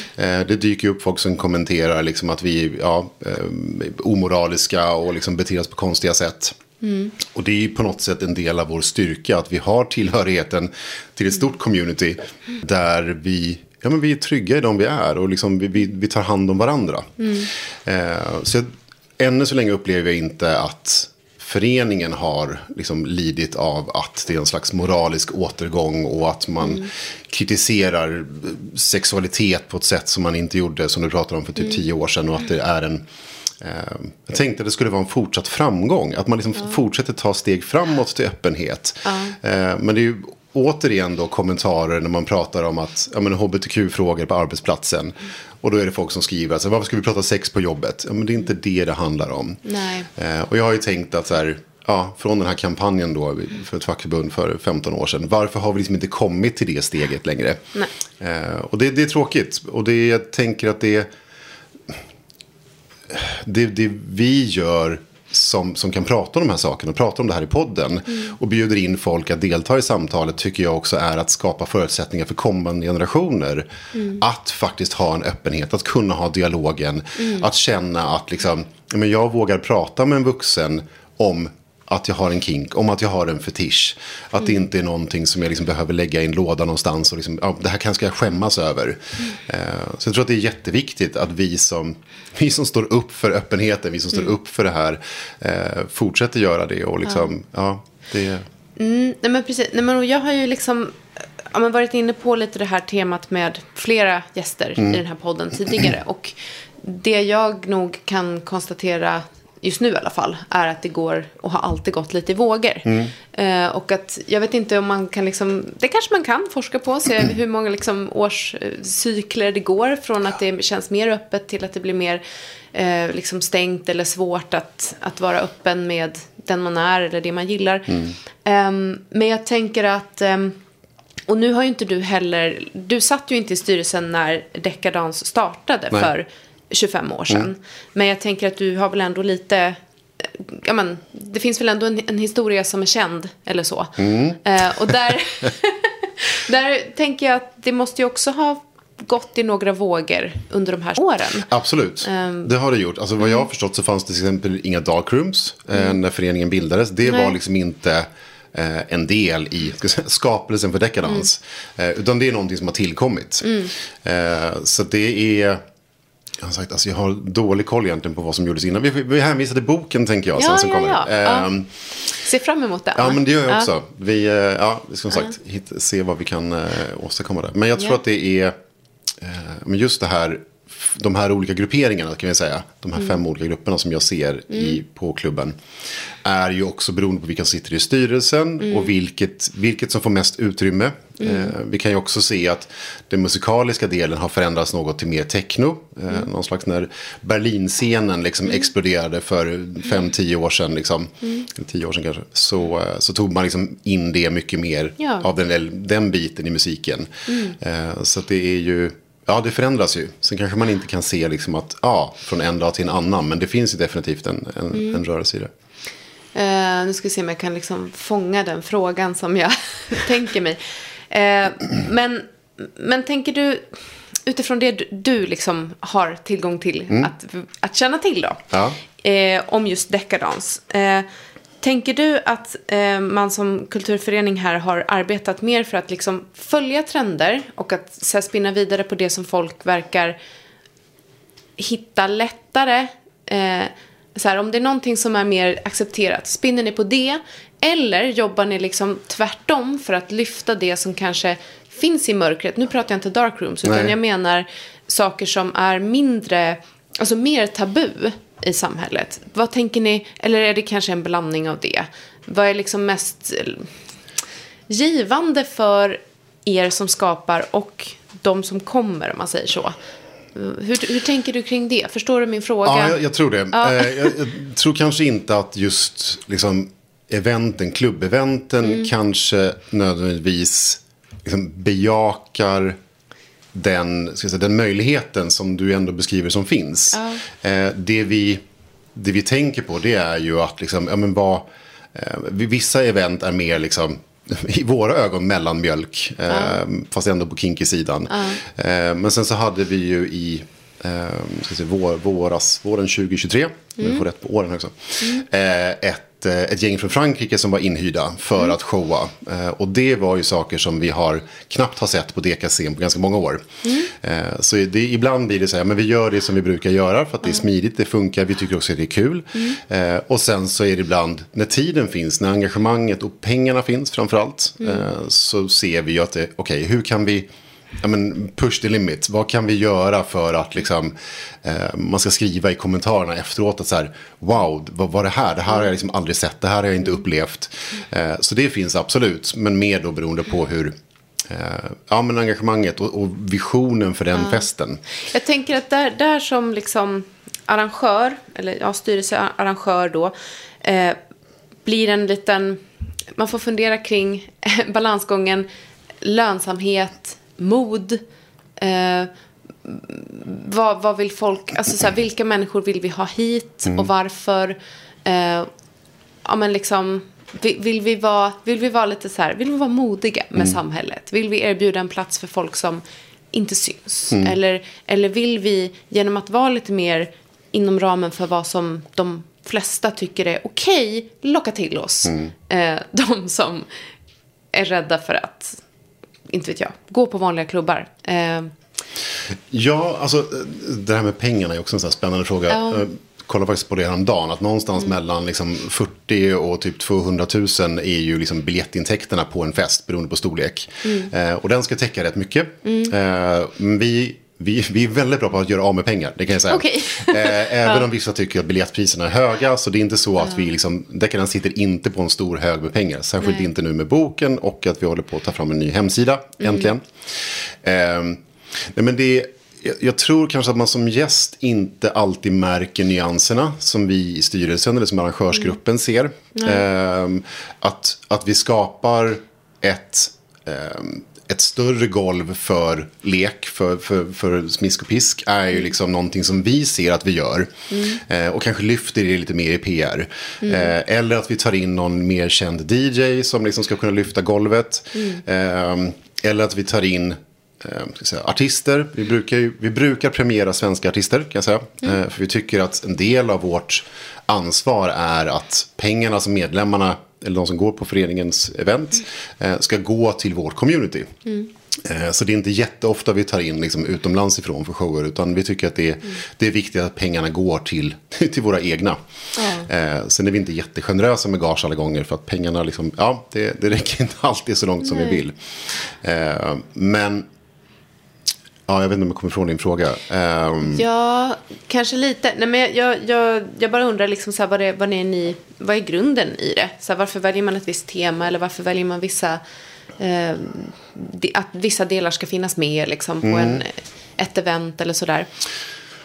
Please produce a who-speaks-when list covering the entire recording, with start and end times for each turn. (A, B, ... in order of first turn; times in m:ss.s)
0:00.2-0:06.6 A
0:06.8-0:07.1 B
0:07.2-0:17.3 A
0:17.2-0:17.5 B
0:17.8-0:33.0 A
0:26.6-0:26.9 B
0:33.6-1:01.1 A
0:39.1-0:39.4 B
0:49.6-0:50.1 B
1:03.1-1:38.5 A
1:14.0-1:14.2 B
1:17.2-1:17.4 B
1:37.0-1:37.3 B
1:38.8-2:02.2 B
1:52.8-1:53.1 A
2:02.7-2:10.6 B
2:07.9-2:08.2 A
2:11.3-2:31.5 B
2:24.0-2:25.0 A
2:31.4-2:45.6 A
2:32.0-2:32.5 B
2:37.1-2:37.3 B
2:43.4-2:43.7 B
2:46.4-2:51.7 A
2:50.4-2:51.5 B
2:52.1-2:53.7 B
2:53.0-2:58.6 A
2:59.2-3:05.6 A
3:06.2-3:35.5 A
3:11.2-3:11.5 B
3:21.2-3:21.5 B
3:25.0-3:25.3 B
3:27.3-3:27.6 B
3:34.7-3:35.0 B
3:36.4-3:48.4 B
3:48.5-3:48.8 A
3:49.0-3:51.1 B
3:51.6-4:00.2 B
4:01.6-4:23.7 B
4:13.6-4:14.0 A
4:24.7-4:29.8 B
4:30.4-4:33.0 B
4:32.6-4:42.8 A
4:33.5-4:34.1 B
4:38.6-4:38.9 B
4:43.5-4:48.4 A
4:46.9-4:47.2 B
4:49.0-5:44.8 A
4:56.3-4:56.6 B
4:58.1-4:58.4 B
5:03.8-5:04.0 B
5:13.6-5:13.9 B
5:44.2-5:44.5 B
5:45.1-5:51.0 B
5:51.6-5:52.6 B
5:53.2-5:55.5 B
5:56.0-5:58.0 B
5:58.6-5:59.1 B
5:59.6-6:05.5 B
6:06.2-6:23.7 B
6:14.1-6:14.4 A
6:22.0-6:22.3 A
6:24.5-6:25.6 B
6:26.3-6:28.5 B
6:29.5-7:41.2 A
6:32.5-6:32.9 B
6:40.8-6:41.1 B
6:42.6-6:42.9 B
6:46.5-6:47.8 B
6:56.4-6:56.7 B
7:06.4-7:06.6 B
7:17.7-7:18.0 B
7:20.4-7:20.7 B
7:24.9-7:25.2 B
7:41.7-7:49.0 A
7:49.4-7:49.7 B
7:49.6-7:55.4 A
7:54.8-7:55.2 B
7:55.9-7:57.3 A
7:58.7-8:00.9 A
8:00.7-8:09.4 B
8:10.0-8:15.3 B
8:13.2-8:13.6 A